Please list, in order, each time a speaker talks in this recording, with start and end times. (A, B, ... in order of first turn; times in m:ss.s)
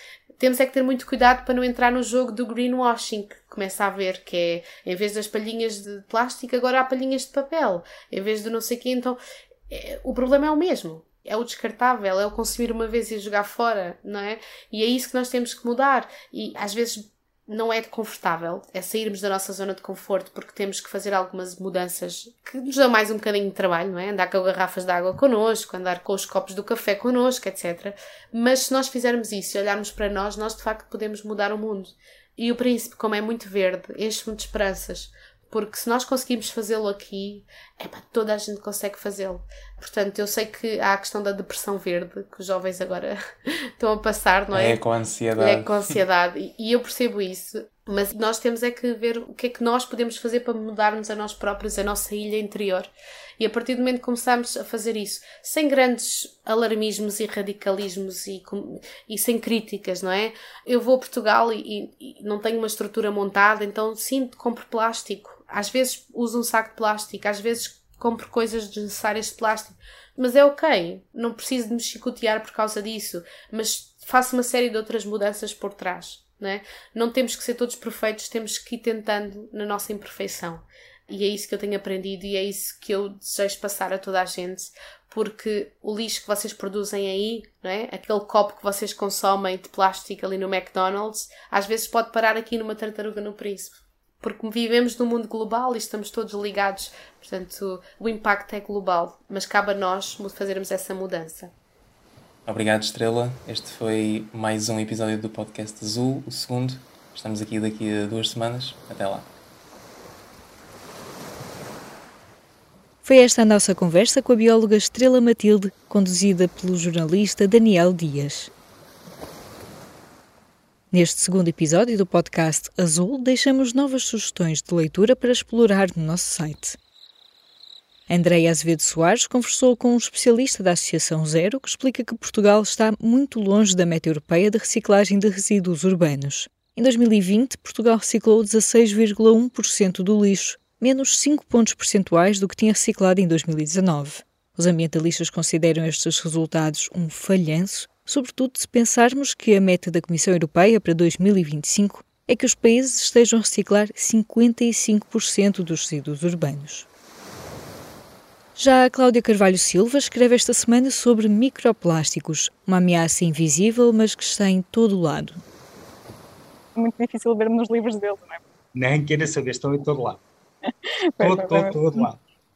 0:00.4-0:09.2 A
0:09.7-0:44.8 A
0:44.5-0:46.0 B
0:45.4-1:41.5 A
1:42.5-1:49.3 B
1:53.0-1:58.5 C
2:00.9-2:06.8 C
2:08.1-2:36.9 C
2:38.6-2:45.4 C
2:46.8-2:48.4 D
2:48.8-2:50.2 E
2:51.2-2:52.0 D
2:51.2-2:52.2 E